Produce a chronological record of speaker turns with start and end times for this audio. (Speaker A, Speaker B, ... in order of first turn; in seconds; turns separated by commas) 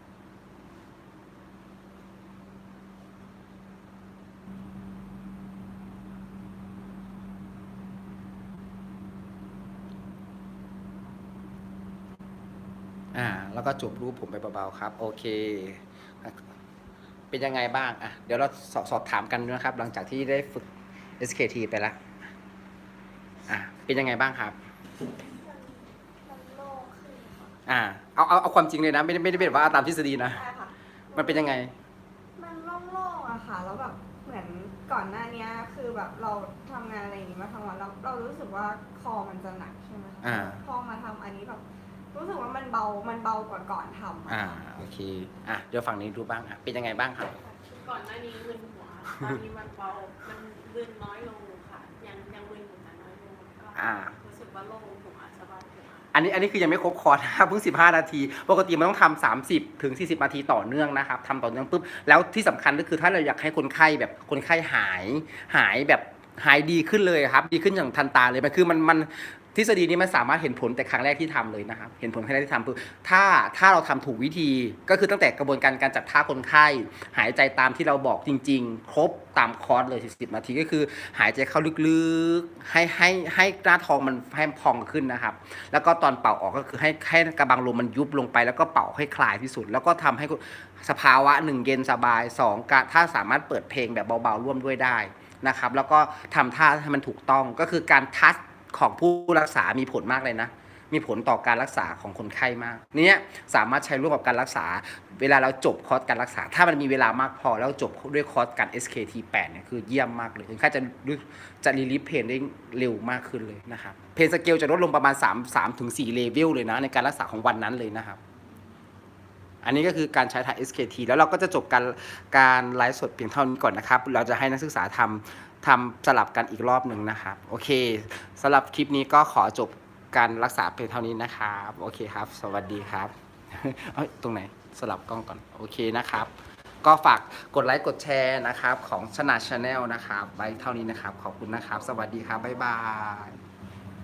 Speaker A: 13.1-16.5, Speaker A: 17.3-20.7, Speaker A: 21.2-22.0, Speaker A: 23.5-24.6, Speaker B: 25.3-27.6, Speaker A: 27.7-30.4, Speaker B: 29.4-29.8, Speaker B: 30.3-31.5, Speaker A: 31.1-31.7, Speaker B: 32.4-44.6, Speaker A: 40.2-40.6, Speaker A: 44.3-47.4, Speaker B: 47.4-47.7, Speaker C: 47.7-56.1, Speaker A: 53.8-54.2, Speaker A: 56.1-118.2, Speaker A: 119.6-143.4